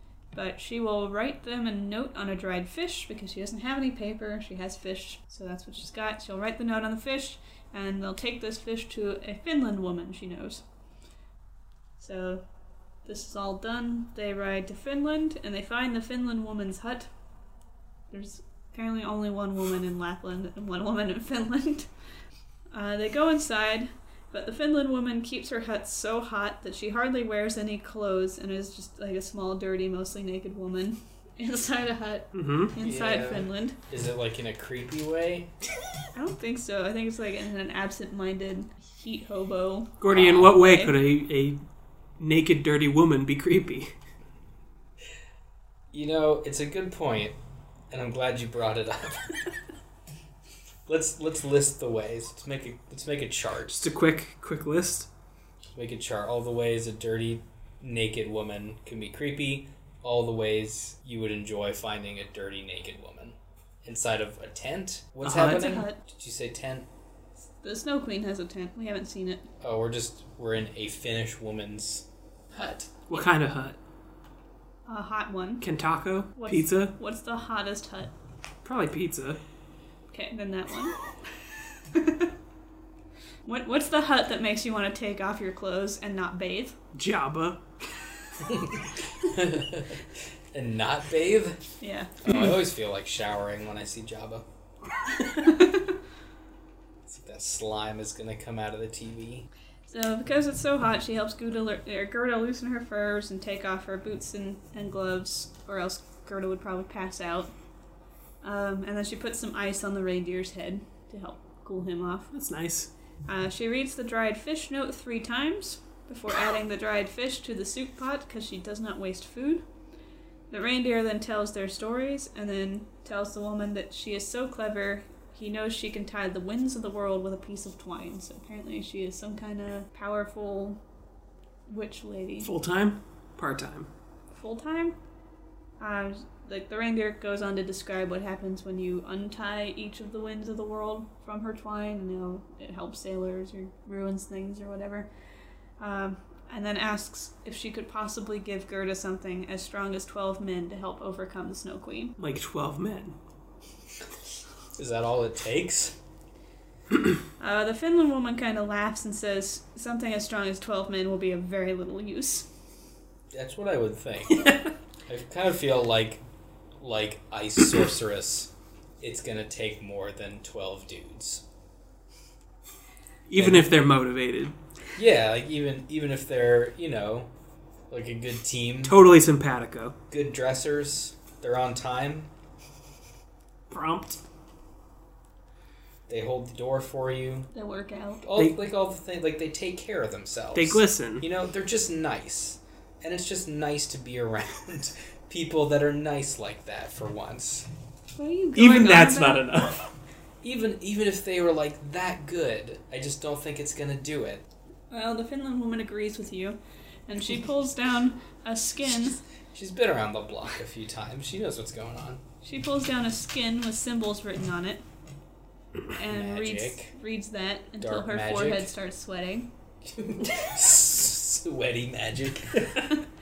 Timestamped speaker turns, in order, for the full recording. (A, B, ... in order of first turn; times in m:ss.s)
0:00.3-0:10.6 A
0:12.0-0:12.4 A
0:13.0-0:17.1 A
0:18.1-0:21.9 A
0:22.7-0:33.8 A
0:32.3-0:32.8 B
0:32.8-0:35.5 C
0:36.2-0:40.9 A
0:40.0-0:41.6 B
0:40.1-0:40.5 C
0:42.2-0:43.9 B
0:45.9-0:47.4 C
0:47.9-0:49.5 C
0:50.9-0:53.8 C
0:53.7-0:55.1 B
0:55.8-1:06.9 C
1:05.2-1:05.8 B
1:05.4-1:06.0 A
1:07.6-1:09.5 A
1:09.6-1:12.9 C
1:13.1-1:13.8 B
1:14.9-1:15.6 A
1:15.6-1:17.0 B
1:16.4-1:18.1 A
1:18.6-1:19.4 B
1:20.1-1:21.0 A
1:21.9-1:22.3 A
1:23.5-1:26.8 A
1:27.0-1:27.6 B
1:28.4-1:31.6 C
1:31.8-1:32.1 A
1:32.2-1:34.4 C
1:35.4-1:35.9 A
1:37.1-1:39.5 C
1:39.9-1:47.5 A
1:48.4-1:52.3 A
1:52.3-1:52.9 B
1:53.3-1:59.6 A
2:00.5-2:10.8 A
2:11.7-2:12.5 A
2:12.4-2:13.9 B
2:14.3-2:15.0 A
2:15.8-2:25.1 A
2:25.8-2:32.2 A
2:32.2-2:33.2 B
2:34.8-2:36.0 C
2:37.4-2:42.5 A
2:43.3-2:44.5 C
2:44.4-2:44.6 B
2:45.1-2:46.2 C
2:46.8-2:51.4 C
2:53.3-2:54.6 B
2:53.4-2:53.7 C
2:55.0-2:57.3 C
2:57.9-2:59.0 C
2:58.8-3:00.0 B
3:00.1-3:02.3 C
3:03.7-3:04.2 B
3:06.1-3:07.5 C
3:07.5-3:08.2 A
3:08.2-3:17.7 C
3:10.5-3:11.2 B
3:18.2-3:19.4 A
3:18.6-3:19.9 B
3:20.4-3:24.4 C
3:24.9-3:29.2 A
3:29.5-3:32.2 C
3:32.4-3:34.8 A
3:35.9-3:39.5 A
3:36.1-3:36.9 C
3:37.8-3:38.7 C
3:39.9-3:42.8 C